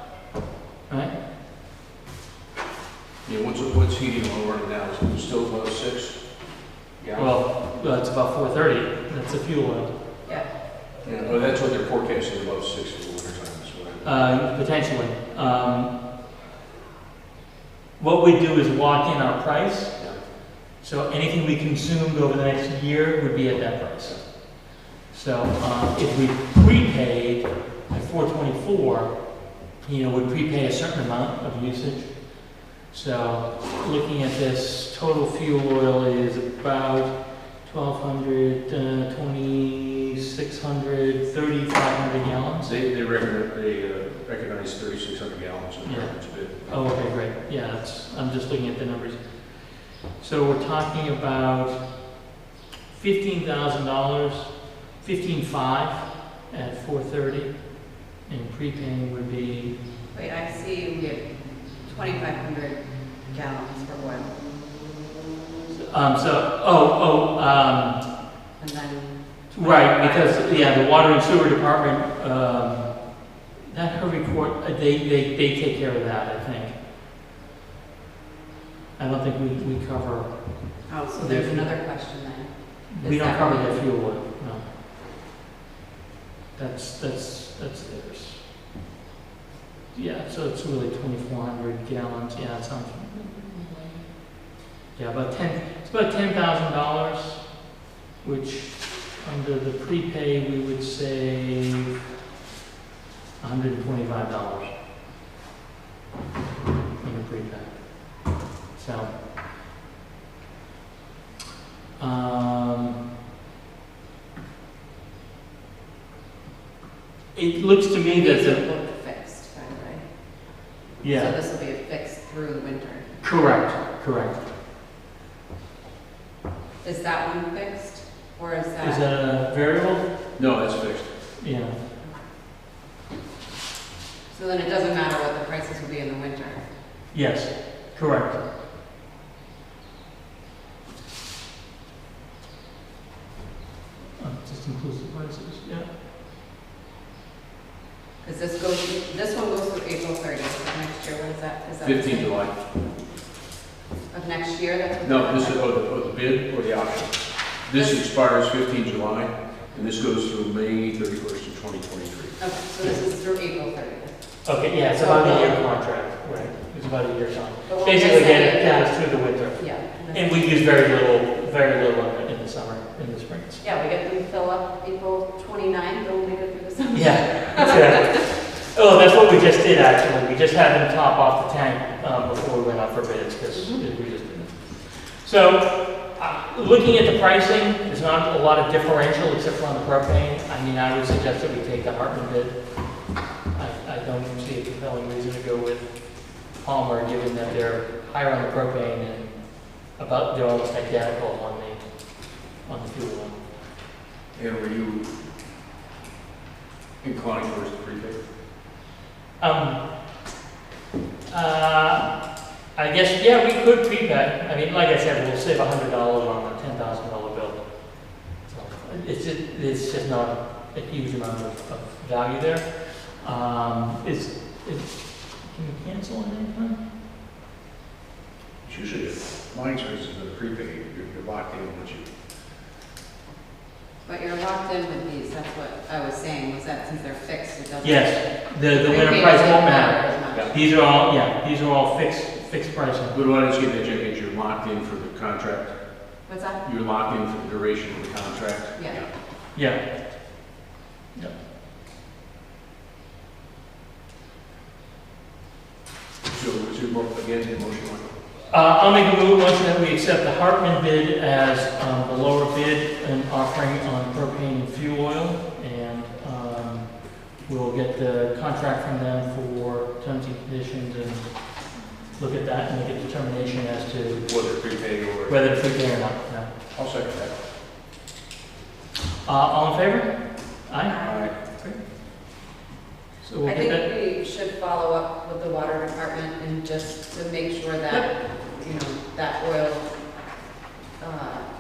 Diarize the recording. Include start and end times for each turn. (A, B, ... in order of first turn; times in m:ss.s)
0:03.2-0:06.2 A
0:07.0-0:07.3 A
0:07.2-0:09.9 B
0:11.0-0:14.2 A
0:14.0-0:16.0 B
0:18.0-0:20.1 B
0:20.8-0:42.7 B
0:42.6-0:46.6 A
0:45.8-0:51.8 B
0:52.9-0:57.7 B
0:58.2-0:59.8 B
1:00.1-1:04.3 C
1:05.7-1:08.0 B
1:08.6-1:10.9 C
1:09.5-1:16.8 B
1:19.0-1:21.8 B
1:20.9-1:23.8 C
1:22.9-1:24.7 B
1:26.6-1:28.4 B
1:29.9-1:34.3 B
1:34.9-1:37.6 B
1:38.2-1:42.0 B
1:43.4-1:44.7 B
1:47.0-1:49.1 B
1:52.0-1:53.0 B
1:57.4-1:58.6 B
1:58.1-2:00.0 C
2:01.0-2:01.3 B
2:01.0-2:03.6 C
2:03.2-2:04.4 B
2:06.8-2:09.1 C
2:08.8-2:10.0 B
2:10.4-2:11.1 A
2:11.4-2:11.8 B
2:14.3-2:16.6 C
2:17.1-2:18.4 B
2:24.2-2:25.9 B
2:28.2-2:32.3 C
2:31.8-2:32.6 A
2:34.1-2:35.6 C
2:35.0-2:42.4 A
2:42.4-2:44.1 C
2:44.4-2:53.6 B
2:44.9-2:45.6 C
2:47.7-2:50.5 C
2:53.6-2:58.1 C
2:56.9-3:12.7 B
3:03.5-3:03.8 C
3:13.5-3:21.8 B
3:22.4-3:23.4 B
3:24.4-3:25.2 A
3:27.0-3:28.2 A
3:29.4-3:29.8 B
3:31.3-3:32.1 B
3:32.8-3:37.6 B
3:38.4-3:46.8 B
3:48.6-3:52.1 A
3:54.0-4:00.7 C
3:57.8-4:03.2 B
4:03.1-4:05.7 A
4:06.3-4:06.6 C
4:06.6-4:09.1 A
4:08.8-4:09.0 C
4:09.6-4:09.8 B
4:16.3-4:18.1 A
4:18.5-4:31.3 B
4:32.2-4:34.2 B
4:34.3-4:35.4 A
4:35.3-4:36.5 B
4:36.8-4:37.3 A
4:39.2-4:40.1 B
4:40.7-4:41.8 B
4:40.9-4:41.2 C
4:41.0-4:41.3 A
4:43.2-4:43.8 B
4:43.4-4:49.9 C
4:51.0-4:51.5 C